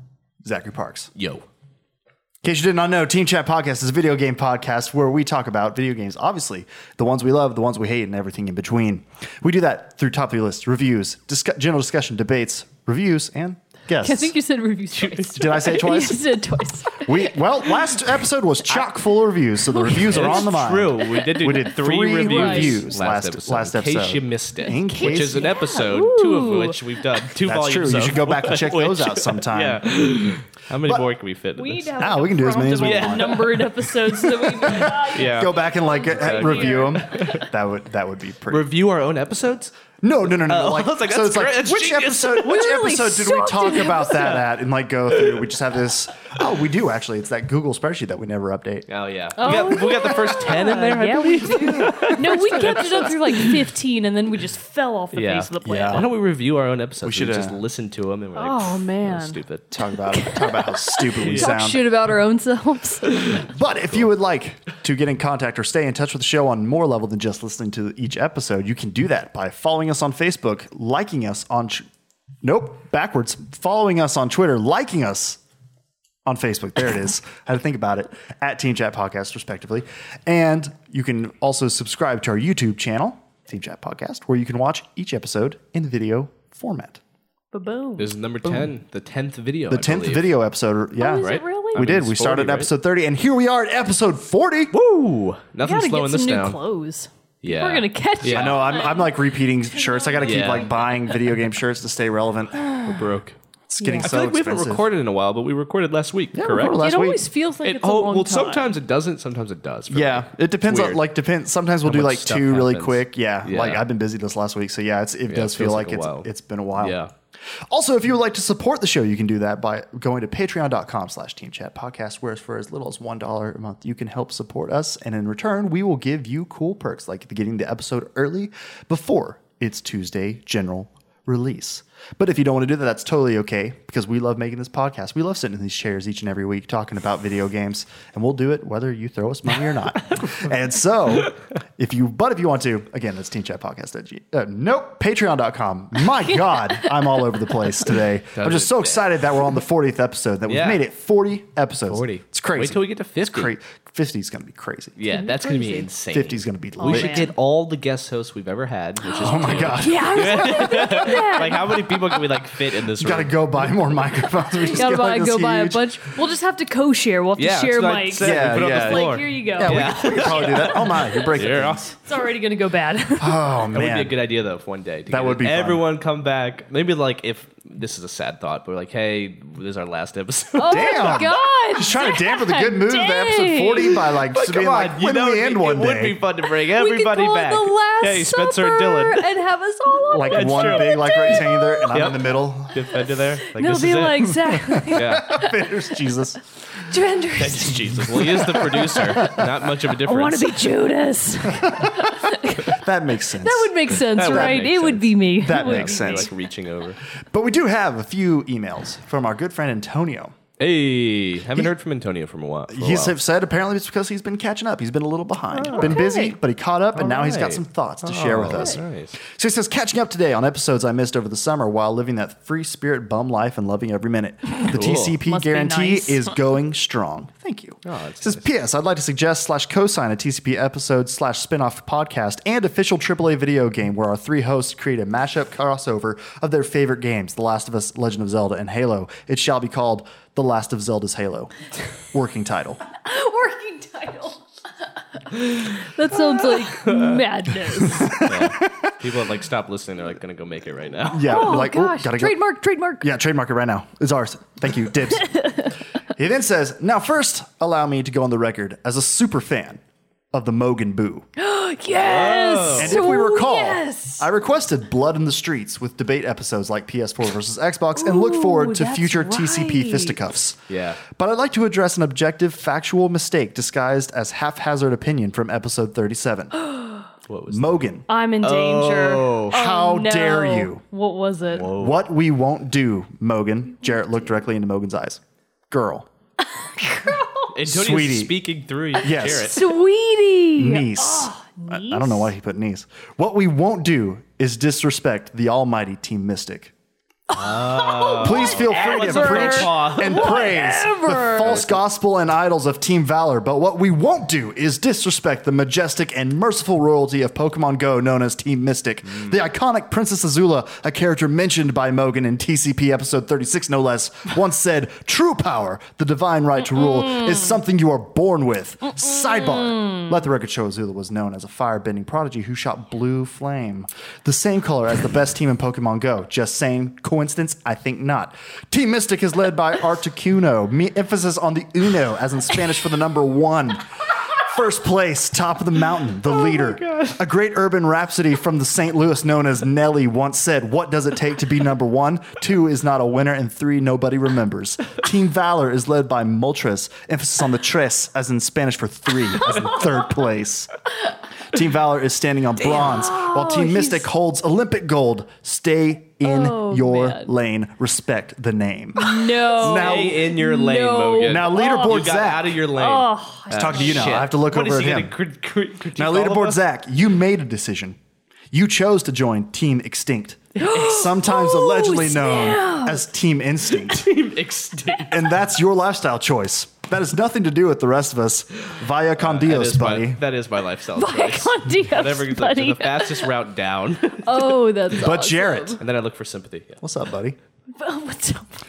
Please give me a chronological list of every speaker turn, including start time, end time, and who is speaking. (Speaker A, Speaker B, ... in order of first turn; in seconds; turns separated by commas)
Speaker A: 0.4-1.1, Speaker B: 1.1-1.4, Speaker A: 2.4-14.3, Speaker C: 14.0-17.4, Speaker B: 14.9-15.6, Speaker A: 15.2-16.4, Speaker A: 16.9-25.5, Speaker C: 19.6-20.3, Speaker B: 20.1-31.9, Speaker C: 21.1-21.6, Speaker C: 22.2-22.9, Speaker C: 24.6-26.8, Speaker A: 27.4-29.9, Speaker C: 31.6-37.4, Speaker A: 32.0-33.5, Speaker B: 32.8-35.6, Speaker A: 34.6-38.7, Speaker B: 36.1-37.5, Speaker B: 38.5-39.7, Speaker A: 40.0-48.9, Speaker B: 40.3-42.6, Speaker C: 42.4-44.4, Speaker B: 45.1-45.4, Speaker B: 48.9-53.6, Speaker C: 49.4-56.0, Speaker A: 49.4-49.9, Speaker A: 51.4-53.0, Speaker B: 55.1-59.6, Speaker A: 55.6-56.1, Speaker A: 57.0-57.6, Speaker C: 58.4-59.4, Speaker A: 59.7-61.8, Speaker C: 60.1-63.4, Speaker B: 61.2-61.6, Speaker B: 63.1-63.4, Speaker A: 63.4-71.8, Speaker A: 72.4-75.4, Speaker A: 76.2-87.0, Speaker C: 87.5-88.1, Speaker B: 88.0-90.4, Speaker A: 89.7-94.7, Speaker C: 91.0-91.8, Speaker B: 91.2-92.7, Speaker B: 94.7-96.6, Speaker C: 95.6-101.2, Speaker B: 97.4-98.6, Speaker A: 98.2-102.9, Speaker B: 100.2-100.8, Speaker C: 102.6-103.0, Speaker B: 102.8-103.4, Speaker A: 103.7-104.8, Speaker C: 103.8-104.2, Speaker B: 104.0-106.8, Speaker A: 106.3-107.3, Speaker C: 106.7-108.7, Speaker B: 107.6-111.0, Speaker A: 109.9-117.0, Speaker B: 111.8-113.8, Speaker B: 115.3-117.1, Speaker A: 117.7-155.0, Speaker B: 148.3-149.0, Speaker B: 150.5-150.8, Speaker B: 151.9-153.5, Speaker B: 155.0-163.4, Speaker C: 155.1-155.9, Speaker A: 156.1-157.3, Speaker C: 156.8-157.3, Speaker C: 159.0-161.9, Speaker A: 159.2-161.1, Speaker A: 163.0-165.9, Speaker C: 164.5-173.6, Speaker B: 167.4-171.9, Speaker A: 168.2-171.9, Speaker A: 173.2-174.2, Speaker B: 173.7-181.3, Speaker A: 175.1-175.8, Speaker C: 180.6-184.0, Speaker A: 180.7-186.2, Speaker B: 184.3-189.4, Speaker C: 186.5-192.1, Speaker A: 190.1-192.9, Speaker B: 190.3-195.3, Speaker C: 193.4-196.0, Speaker A: 194.5-196.4, Speaker C: 196.8-202.8, Speaker B: 197.3-200.7, Speaker A: 198.1-199.5, Speaker A: 201.5-206.3, Speaker C: 203.4-206.3, Speaker B: 204.1-207.0, Speaker A: 207.1-210.3, Speaker B: 210.6-213.2, Speaker A: 212.7-241.5, Speaker B: 215.5-216.0, Speaker C: 215.7-216.3, Speaker B: 216.9-219.2, Speaker B: 224.6-225.2, Speaker C: 225.2-226.4, Speaker B: 227.8-228.5, Speaker A: 242.1-242.8, Speaker C: 243.0-244.4, Speaker C: 245.2-248.3, Speaker B: 246.6-247.2, Speaker A: 248.0-248.9, Speaker B: 248.2-251.5, Speaker A: 251.1-252.4, Speaker C: 251.2-253.1, Speaker A: 253.0-255.3, Speaker C: 255.2-255.8, Speaker A: 256.1-259.8, Speaker A: 260.3-261.3, Speaker C: 261.4-264.3, Speaker B: 261.9-263.1, Speaker A: 262.8-276.5, Speaker C: 267.9-270.3, Speaker B: 270.7-271.0, Speaker C: 276.5-277.1, Speaker B: 277.3-277.9, Speaker A: 277.5-278.0, Speaker C: 278.1-281.7, Speaker B: 278.4-279.5, Speaker A: 279.5-280.8, Speaker B: 281.5-282.0, Speaker A: 281.6-286.1, Speaker C: 286.5-287.5, Speaker B: 287.5-289.7, Speaker A: 287.6-288.4, Speaker A: 289.0-289.5, Speaker C: 289.0-292.3, Speaker A: 290.6-296.7, Speaker C: 297.3-301.6, Speaker B: 297.3-300.4, Speaker A: 298.2-350.7, Speaker B: 301.4-301.8, Speaker B: 309.1-309.4, Speaker C: 319.7-320.0, Speaker B: 336.4-337.1, Speaker A: 351.5-360.2, Speaker C: 352.6-354.1, Speaker C: 356.2-357.3, Speaker C: 358.9-362.0, Speaker B: 359.6-366.6, Speaker A: 361.2-362.6, Speaker C: 362.8-364.2, Speaker A: 363.5-365.1, Speaker A: 365.9-368.0, Speaker A: 368.5-374.1, Speaker C: 370.6-373.0, Speaker B: 370.6-371.1, Speaker B: 373.8-375.2, Speaker A: 375.0-380.2, Speaker B: 379.2-384.6, Speaker C: 380.9-383.3, Speaker C: 384.2-385.8, Speaker A: 384.9-385.8, Speaker B: 385.8-386.8, Speaker A: 386.8-387.4, Speaker C: 387.7-388.5